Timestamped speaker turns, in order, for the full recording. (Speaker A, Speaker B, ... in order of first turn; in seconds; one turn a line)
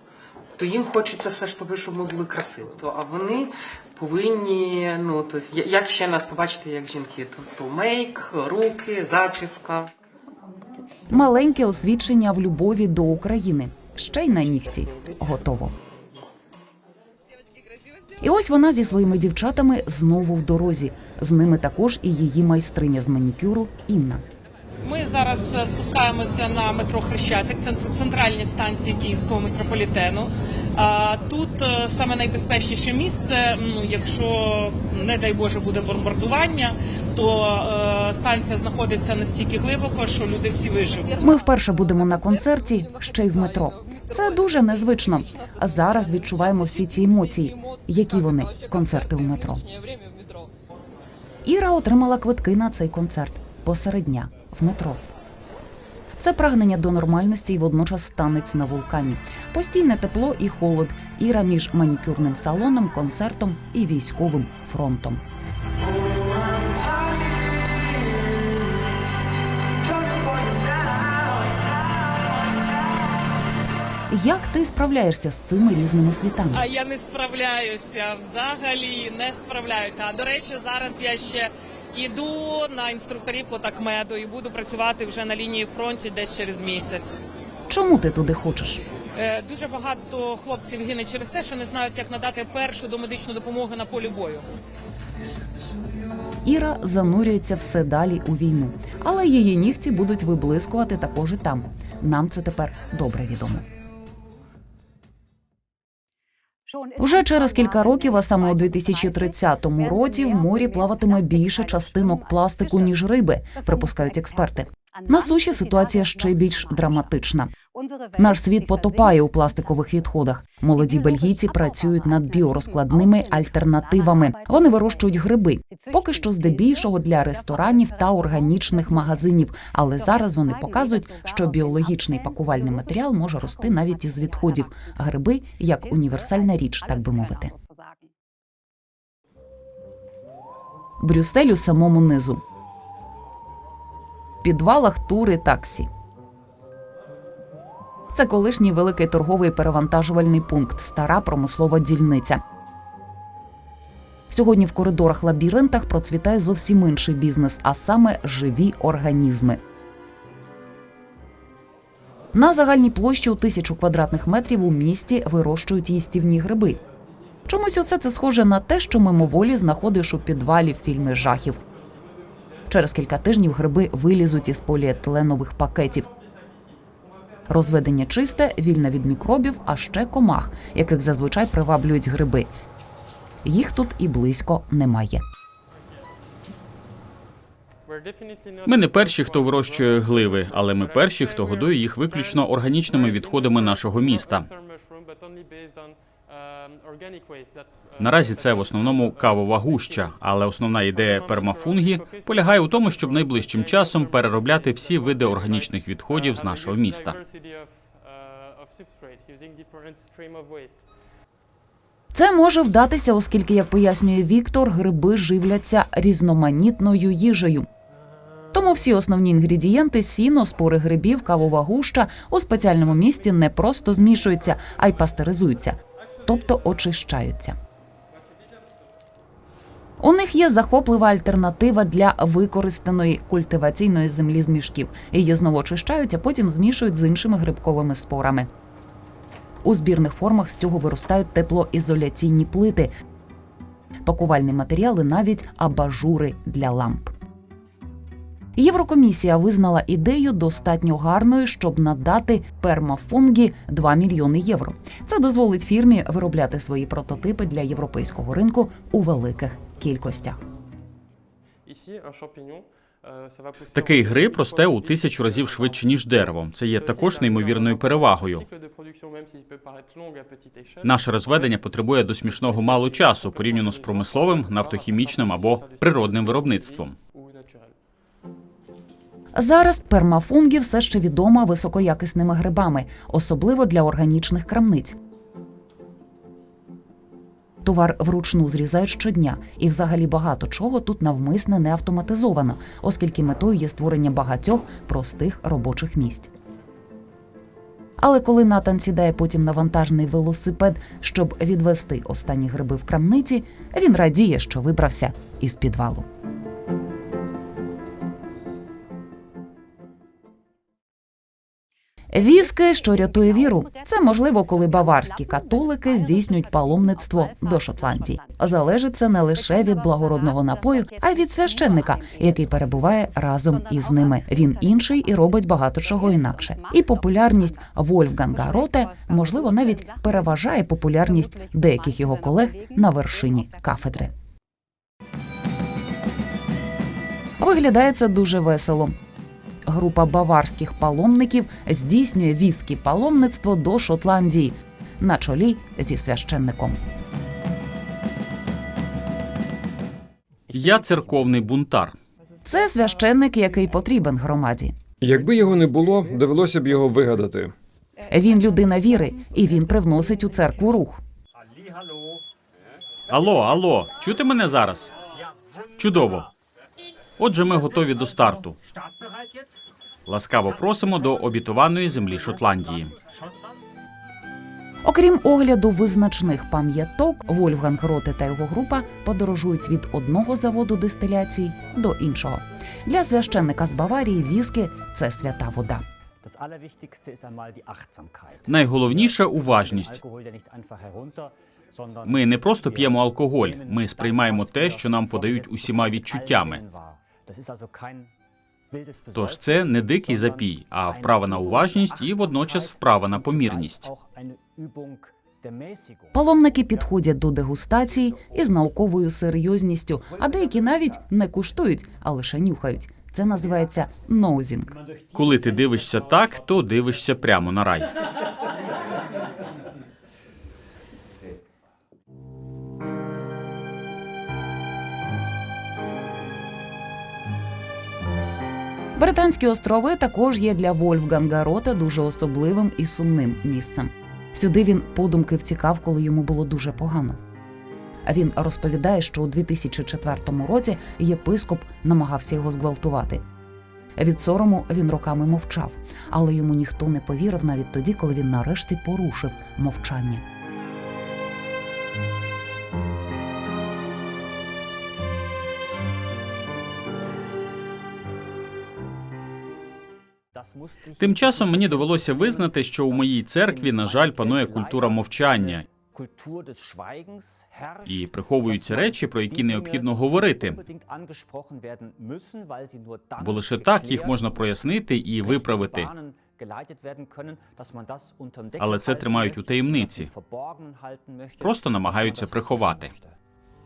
Speaker A: 0.6-9.9
Speaker B: 11.1-15.8
Speaker B: 18.2-24.2
Speaker A: 24.8-41.2
Speaker B: 41.2-49.6
Speaker B: 51.4-55.0
Speaker B: 56.2-65.2
Speaker B: 74.1-76.6
Speaker A: 76.5-87.2
Speaker B: 87.7-88.8
Speaker A: 89.1-94.5
Speaker B: 96.4-103.7
Speaker B: 107.0-117.5
Speaker B: 118.2-137.5
Speaker B: 141.0-142.4
Speaker B: 144.4-145.9
Speaker B: 148.1-152.4
Speaker B: 154.3-159.6
Speaker B: 162.3-166.8
Speaker B: 167.5-171.6
Speaker B: 172.7-176.1
Speaker B: 177.5-182.5
Speaker B: 183.4-185.2
Speaker C: 188.6-194.5
Speaker C: 198.0-207.2
Speaker B: 212.1-217.7
Speaker B: 218.5-227.6
Speaker B: 230.0-238.5
Speaker B: 239.6-242.9
Speaker B: 244.0-247.1
Speaker B: 248.6-260.4
Speaker C: 263.7-268.5
Speaker C: 270.8-276.9
Speaker B: 279.3-284.9
Speaker B: 287.6-296.3
Speaker B: 298.0-306.1
Speaker B: 312.1-334.1
Speaker B: 337.4-338.9
Speaker B: 339.7-346.8
Speaker C: 350.5-352.0
Speaker B: 352.4-354.7
Speaker D: 355.0-357.5
Speaker B: 358.1-361.0
Speaker C: 363.1-364.9
Speaker C: 365.8-366.3
Speaker C: 367.2-368.6
Speaker C: 370.1-372.9
Speaker B: 374.8-385.8
Speaker C: 388.4-390.0
Speaker C: 392.0-396.6
Speaker C: 399.1-403.9
Speaker B: 406.1-414.8
Speaker C: 415.1-417.9
Speaker B: 428.9-437.2
Speaker B: 438.1-443.2
Speaker B: 443.9-450.2
Speaker C: 461.0-465.7
Speaker C: 467.9-470.6
Speaker C: 473.2-475.9
Speaker C: 478.6-480.1
Speaker C: 481.4-482.9